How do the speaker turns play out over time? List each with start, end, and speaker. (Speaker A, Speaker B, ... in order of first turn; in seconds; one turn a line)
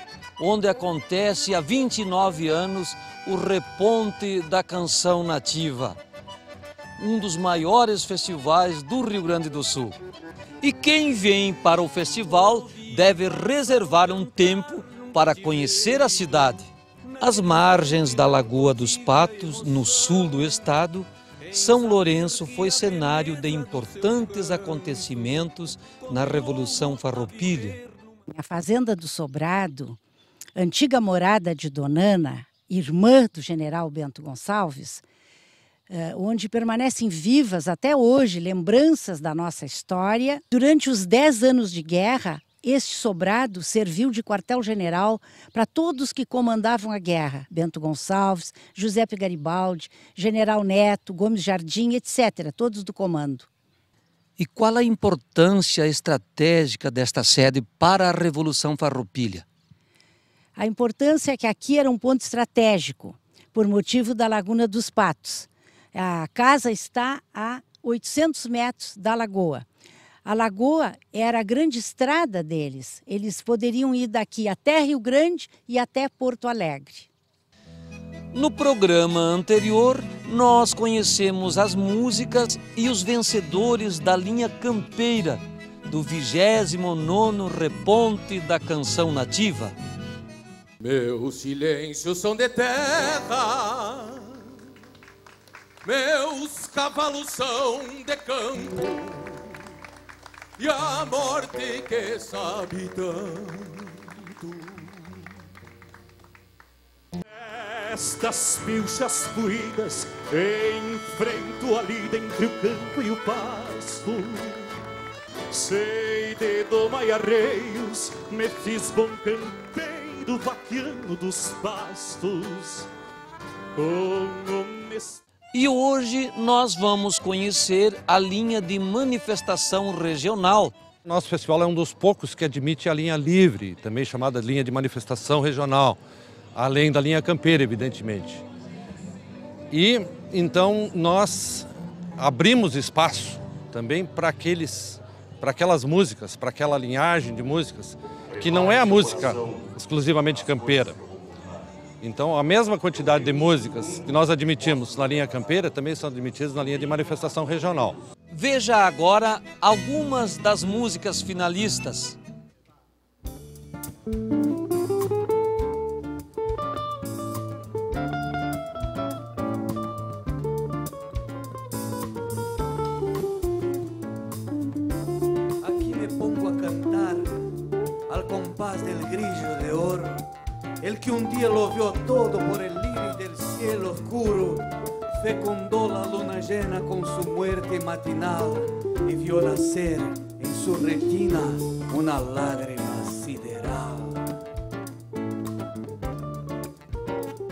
Speaker A: 0.4-6.0
Speaker A: 7.0-10.0
Speaker A: 10.6-27.8
Speaker B: 28.3-30.0
Speaker B: 30.6-35.0
Speaker B: 35.9-53.5
Speaker A: 54.4-59.5
Speaker B: 60.5-69.7
Speaker B: 70.2-77.1
Speaker A: 78.3-89.7
Speaker C: 90.8-94.2
Speaker C: 95.8-99.0
Speaker C: 100.6-102.7
Speaker D: 102.7-103.8
Speaker D: 104.4-104.7
Speaker D: 107.3-114.7
Speaker D: 115.5-122.9
Speaker D: 123.8-125.2
Speaker A: 125.5-130.7
Speaker E: 131.1-136.0
Speaker E: 136.5-138.4
Speaker E: 139.7-151.0
Speaker E: 152.0-158.0
Speaker A: 158.3-162.2
Speaker F: 175.6-177.4
Speaker F: 178.1-180.3
Speaker F: 180.8-194.2